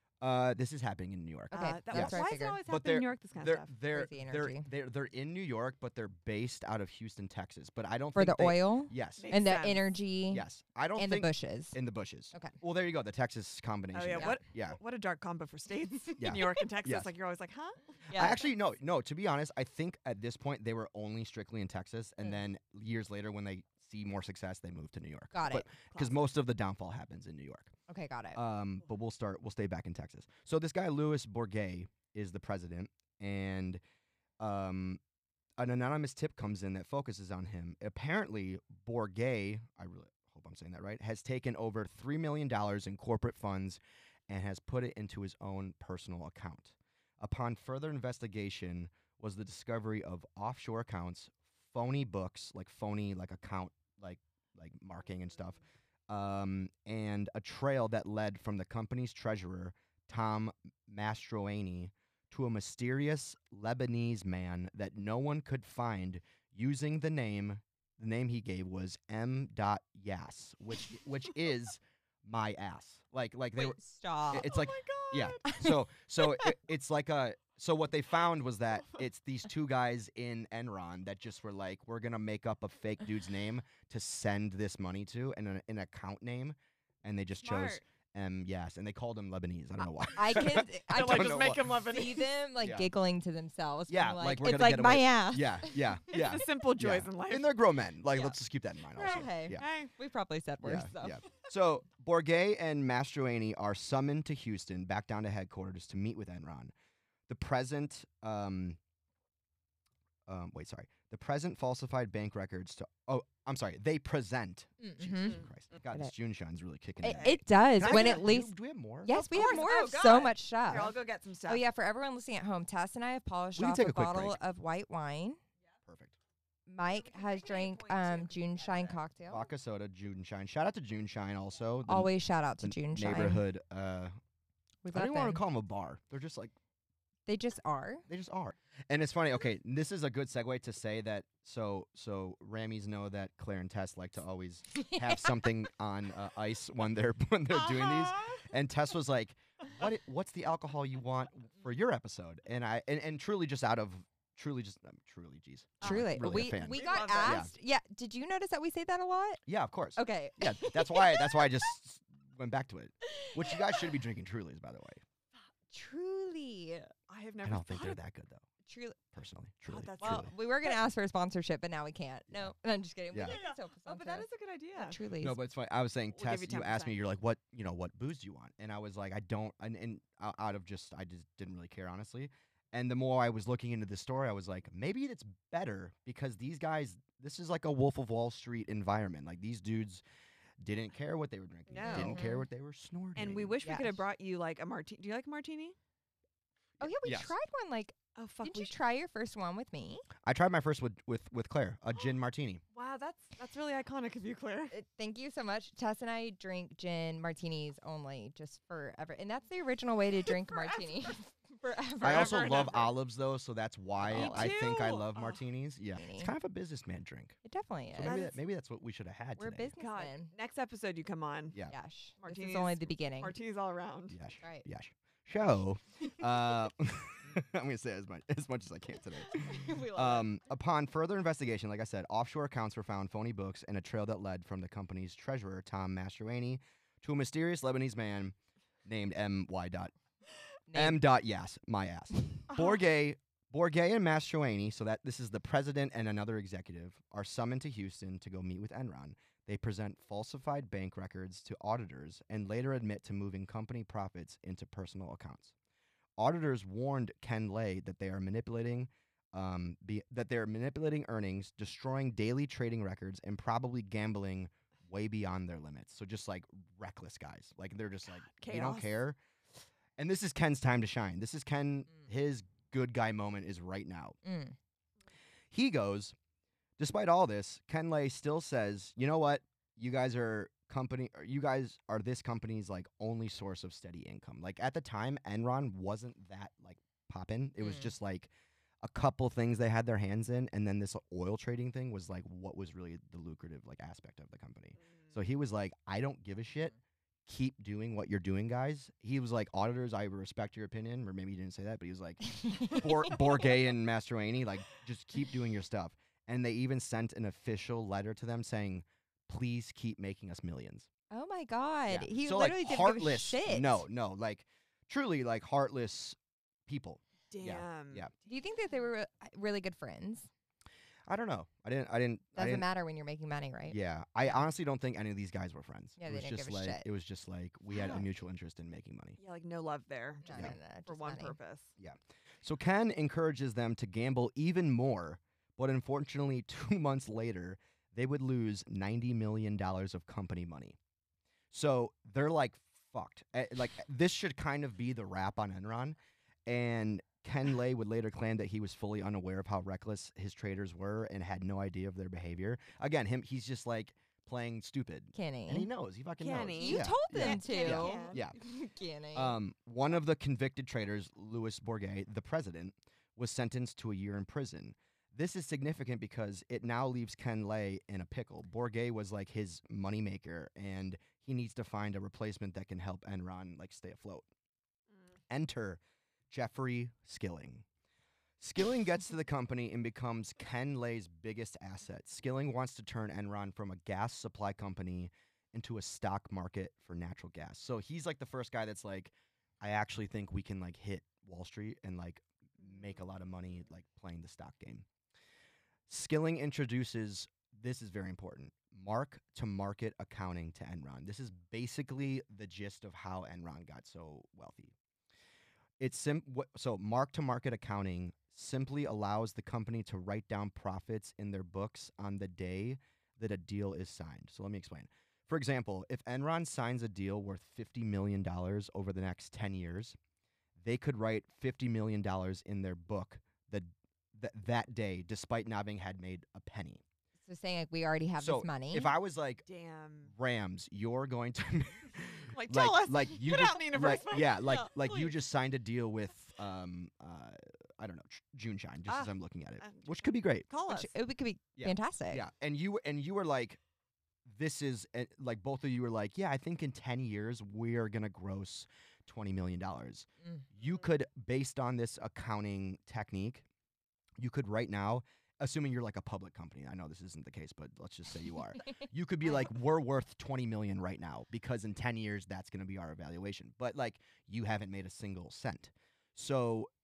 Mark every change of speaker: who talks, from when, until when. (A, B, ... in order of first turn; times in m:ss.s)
0:00.2-0:09.3 A
0:01.5-0:02.6 B
0:01.5-0:03.7 C
0:03.9-0:04.7 B
0:08.2-0:10.4 B
0:09.2-0:09.9 C
0:10.3-0:14.8 A
0:11.0-0:11.8 B
0:13.9-0:18.4 C
0:16.2-0:17.1 A
0:18.1-0:18.4 B
0:18.1-0:27.7 A
0:25.3-0:25.7 B
0:25.9-0:26.3 C
0:27.9-0:28.4 B
0:28.4-0:33.8 A
0:34.4-0:35.0 A
0:35.6-1:13.8 A
1:13.6-1:14.5 B
1:14.3-1:31.8 A
1:14.4-1:15.7 C
1:15.5-1:15.7 B
1:16.2-1:16.5 C
1:27.4-1:27.8 C
1:30.2-1:35.8 B
1:30.9-1:32.3 C
1:32.6-1:32.9 A
1:33.9-1:39.7 A
1:36.1-1:37.5 C
1:38.9-1:41.2 B
1:39.5-1:39.9 C
1:40.6-1:46.7 A
1:47.3-1:48.8 A
1:50.3-1:59.5 A
1:54.8-1:55.4 B
1:57.0-1:58.5 B
1:57.1-1:58.3 C
1:59.0-2:05.4 B
1:59.1-2:01.6 C
2:03.6-2:04.4 A
2:05.9-2:06.2 A
2:06.7-2:09.4 B
2:06.9-2:09.0 C
2:09.3-2:14.1 A
2:11.9-2:13.4 B
2:14.8-2:15.4 B
2:14.9-2:16.5 A
2:17.3-2:18.1 B
2:18.1-2:37.5 A
2:24.7-2:25.5 B
2:27.6-2:28.4 C
2:35.8-2:39.4 B
2:36.7-2:37.5 C
2:39.5-2:45.0 A
2:40.0-2:41.7 B
2:43.0-2:43.9 B
2:45.7-2:46.9 B
2:47.1-2:48.0 C
2:47.4-2:48.5 A
2:48.6-2:49.0 B
2:49.1-2:50.3 A
2:49.7-2:50.7 C
2:50.0-2:55.4 B
2:53.1-2:53.4 A
2:53.2-2:55.0 C
2:55.2-3:10.0 A
2:56.2-2:57.0 C
3:10.6-3:13.6 A
3:11.7-3:12.2 C
3:11.8-3:12.5 B
3:13.2-3:15.8 C
3:13.6-3:14.0 B
3:16.8-3:17.3 A
3:16.8-3:20.1 B
3:18.2-3:18.8 C
3:20.2-3:22.6 A
3:22.7-3:24.7 C
3:24.7-3:32.7 B
3:32.0-3:32.9 C
3:32.0-3:37.4 A
3:34.0-3:34.6 B
3:34.1-3:35.4 C
3:36.0-3:36.3 B
3:37.4-3:38.2 B
3:37.9-3:39.7 A
3:38.0-3:38.4 C
3:39.4-3:40.3 B
3:39.8-3:41.6 C
3:41.7-3:43.3 B
3:42.2-3:44.2 C
3:44.1-3:59.9 A
3:49.3-3:50.3 B
4:00.7-4:01.0 B
4:00.7-4:15.5 A
4:16.2-4:29.2 A
4:28.4-4:28.9 C
4:30.0-4:34.2 A
4:34.2-4:34.6 B
4:35.5-4:36.2 A
4:36.8-4:48.3 A
4:47.6-4:47.9 B
4:48.8-4:56.7 A
4:54.8-4:55.1 C
4:57.3-5:10.9 A
5:02.3-5:02.9 B
5:11.1-5:13.8 B
5:11.9-5:18.1 A
5:17.3-5:18.1 C
5:18.3-5:20.3 B
5:21.1-5:22.7 A
5:22.4-5:23.8 B
5:23.7-5:29.2 A
5:26.0-5:26.8 B
5:27.8-5:28.0 B
5:29.2-5:31.7 C
5:30.2-5:31.4 B
5:31.8-5:40.8 A
5:41.5-5:46.0 A
5:46.5-5:58.4 A
5:55.2-5:55.7 B
5:56.2-5:58.2 C
5:56.6-5:59.4 B
5:59.1-6:14.3 A
6:15.3-6:17.6 A
6:18.4-6:34.9 A
6:35.9-6:44.8 A
6:45.8-7:00.0 A
7:00.6-7:06.8 A
7:07.3-7:08.9 B
7:08.2-7:09.4 A
7:09.5-7:10.1 C
7:10.1-7:20.5 A
7:12.3-7:14.9 C
7:18.9-7:20.9 C
7:20.7-7:22.2 B
7:21.6-7:23.6 A
7:24.3-7:33.4 A
7:34.2-7:46.7 A